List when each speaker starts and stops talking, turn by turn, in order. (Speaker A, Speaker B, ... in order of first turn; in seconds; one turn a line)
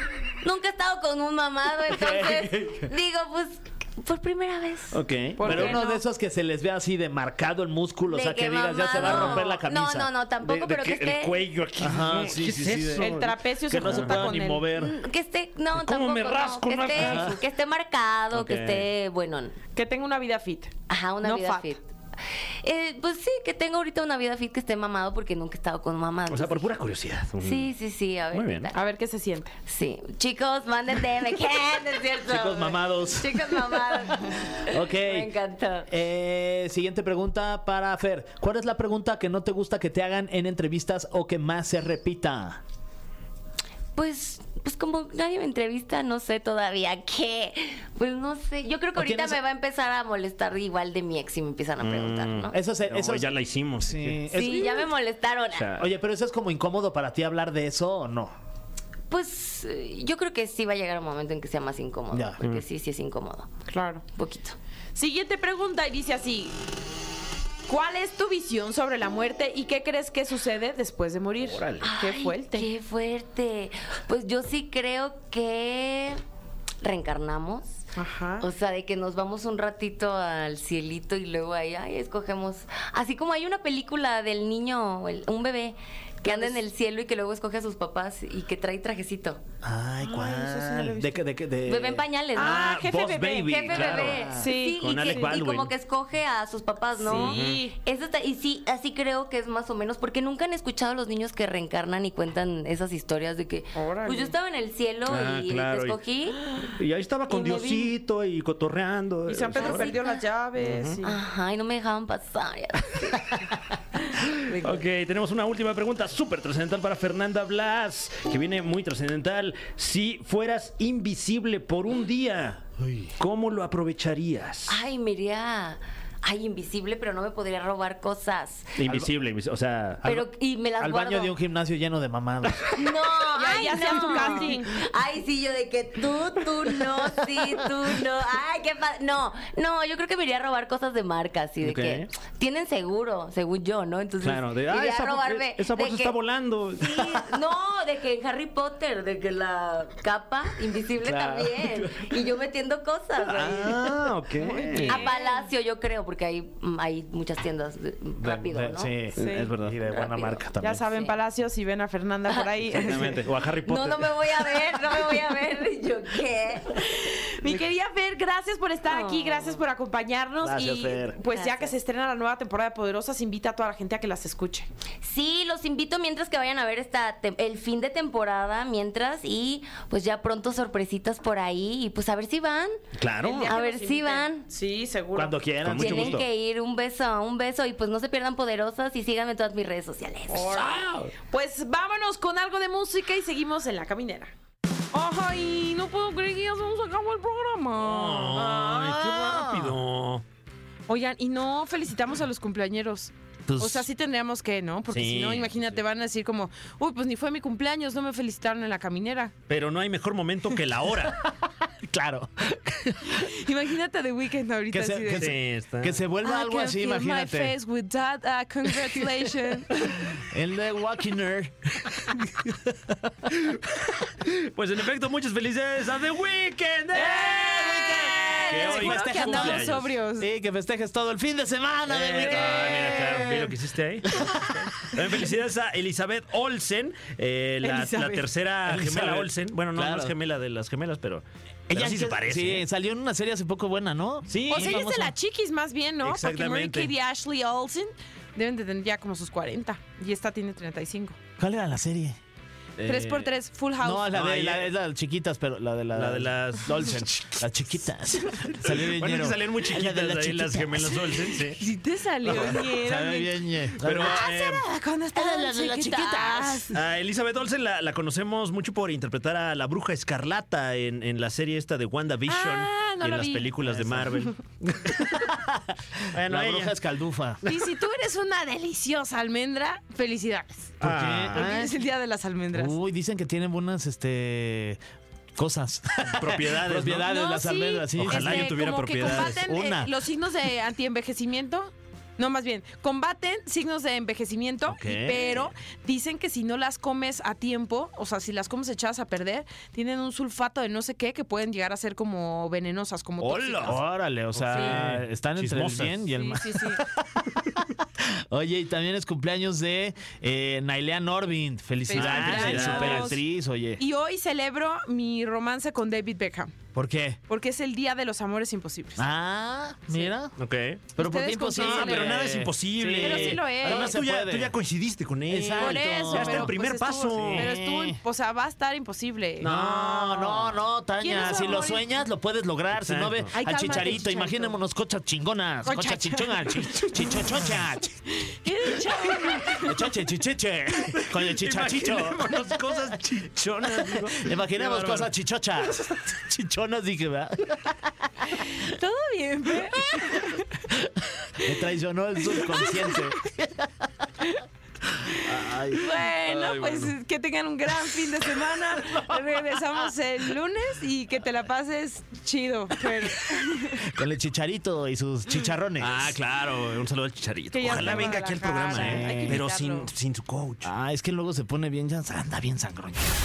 Speaker A: 0.4-5.0
Speaker B: 1.9-2.9
Speaker C: 4.9-5.8
Speaker D: 5.4-6.0
Speaker B: 5.4-10.1
Speaker A: 8.1-11.4
Speaker C: 10.4-14.4
Speaker B: 11.8-14.9
Speaker D: 12.9-14.7
Speaker A: 14.7-19.6
Speaker C: 15.8-17.4
Speaker B: 17.0-17.3
Speaker C: 18.3-18.9
Speaker D: 19.8-21.7
Speaker A: 20.9-21.9
Speaker A: 22.6-26.7
Speaker C: 26.3-27.7
Speaker A: 27.4-28.8
Speaker C: 28.3-28.7
Speaker D: 28.7-29.6
Speaker A: 29.7-35.9
Speaker B: 32.3-35.3
Speaker B: 35.9-42.6
Speaker A: 44.0-52.6
Speaker B: 49.0-49.4
Speaker C: 51.8-54.2
Speaker B: 52.5-54.9
Speaker A: 54.3-55.7
Speaker C: 55.5-55.9
Speaker B: 55.8-58.3
Speaker A: 59.1-63.5
Speaker B: 62.1-62.4
Speaker D: 63.7-64.0
Speaker A: 64.1-64.6
Speaker D: 65.0-66.6
Speaker D: 67.7-72.7
Speaker C: 71.4-71.9
Speaker A: 71.8-76.2
Speaker A: 76.8-77.8
Speaker D: 78.0-78.5
Speaker A: 78.4-89.4
Speaker D: 86.2-86.6
Speaker B: 89.6-92.0
Speaker D: 90.0-91.2
Speaker A: 91.7-92.7
Speaker D: 92.3-94.8
Speaker C: 92.4-95.7
Speaker B: 93.3-94.4
Speaker A: 93.4-106.4
Speaker D: 97.0-97.8
Speaker C: 97.1-97.7
Speaker D: 103.8-104.3
Speaker C: 105.1-109.9
Speaker A: 107.3-107.9
Speaker D: 109.3-111.2
Speaker A: 109.6-110.2
Speaker C: 110.6-111.0
Speaker A: 111.0-113.5
Speaker A: 114.2-114.8
Speaker C: 114.2-124.8
Speaker B: 122.8-123.1
Speaker A: 124.7-128.8
Speaker C: 128.8-130.1
Speaker B: 130.0-130.3
Speaker A: 130.1-131.3
Speaker B: 130.8-132.9
Speaker A: 132.8-146.2
Speaker D: 133.3-134.8
Speaker C: 141.6-142.1
Speaker C: 144.2-147.1
Speaker A: 146.8-153.8
Speaker B: 151.0-151.8
Speaker C: 153.2-155.1
Speaker D: 154.4-155.5
Speaker A: 154.9-159.0
Speaker B: 158.2-160.9
Speaker C: 159.2-159.8
Speaker D: 159.2-159.5
Speaker A: 159.9-160.4
Speaker D: 160.6-163.2
Speaker A: 162.3-166.8
Speaker C: 162.7-164.5
Speaker D: 166.8-174.7
Speaker A: 168.9-169.6
Speaker B: 170.4-171.2
Speaker A: 171.3-171.7
Speaker A: 175.0-182.8
Speaker C: 183.0-183.6
Speaker D: 183.2-185.4
Speaker A: 183.5-184.5
Speaker B: 185.2-186.2
Speaker C: 185.6-186.2
Speaker A: 185.8-190.7
Speaker D: 190.3-194.3
Speaker C: 190.6-191.1
Speaker D: 194.9-198.8
Speaker C: 197.8-200.2
Speaker B: 198.6-199.8
Speaker D: 200.9-209.3
Speaker B: 203.5-203.9
Speaker C: 204.9-205.8
Speaker C: 209.5-211.2
Speaker B: 211.7-213.4
Speaker D: 213.1-215.3
Speaker B: 214.7-217.6
Speaker C: 215.2-216.0
Speaker D: 216.2-219.9
Speaker B: 219.8-223.4
Speaker C: 223.4-229.9
Speaker D: 227.0-230.3
Speaker B: 227.0-235.0
Speaker C: 231.9-242.7
Speaker D: 237.6-238.3
Speaker B: 238.7-240.2
Speaker B: 241.7-245.1
Speaker C: 244.3-245.0
Speaker D: 244.5-251.2
Speaker C: 246.0-246.9
Speaker B: 251.4-252.2
Speaker B: 252.8-253.3
Speaker C: 252.9-253.2
Speaker D: 252.9-254.2
Speaker B: 253.8-261.3
Speaker C: 254.1-254.7
Speaker C: 255.9-257.4
Speaker C: 258.5-261.6
Speaker D: 261.3-263.4
Speaker C: 262.2-262.7
Speaker B: 262.2-264.3
Speaker C: 263.8-264.7
Speaker D: 264.0-266.7
Speaker B: 265.1-266.8
Speaker C: 266.7-275.3
Speaker D: 272.3-273.6
Speaker B: 273.6-274.3
Speaker B: 274.9-277.4
Speaker C: 276.1-276.8
Speaker D: 277.5-280.8
Speaker C: 280.8-281.6
Speaker B: 280.8-281.7
Speaker D: 281.3-282.8
Speaker B: 282.5-284.8
Speaker B: 285.4-289.9
Speaker C: 286.1-287.1
Speaker D: 287.0-303.8
Speaker C: 288.0-289.4
Speaker C: 294.7-295.5
Speaker C: 303.2-306.1
Speaker B: 303.6-313.8
Speaker D: 304.5-304.8
Speaker D: 306.1-306.8
Speaker D: 311.9-313.2
Speaker C: 311.9-313.2
Speaker D: 313.8-316.6
Speaker B: 316.7-317.2
Speaker D: 317.3-319.0
Speaker B: 319.0-320.4
Speaker C: 320.4-320.9
Speaker D: 321.0-322.3
Speaker B: 321.0-324.6
Speaker C: 321.5-327.5
Speaker D: 322.9-324.0
Speaker B: 325.3-326.6
Speaker D: 325.5-330.3
Speaker B: 327.1-328.0
Speaker C: 329.4-330.5
Speaker B: 329.4-342.9
Speaker D: 331.0-332.0
Speaker C: 332.8-334.0
Speaker D: 333.3-334.6
Speaker D: 335.6-337.2
Speaker D: 338.2-339.9
Speaker C: 341.1-345.1
Speaker B: 343.6-347.8
Speaker D: 348.4-350.5
Speaker B: 351.4-353.7
Speaker D: 352.2-353.1
Speaker D: 355.1-363.8
Speaker B: 355.2-356.0
Speaker C: 355.9-356.9
Speaker B: 363.8-366.2
Speaker C: 365.8-370.7
Speaker D: 367.5-369.9
Speaker B: 367.7-368.1
Speaker B: 368.7-369.4
Speaker B: 370.6-373.1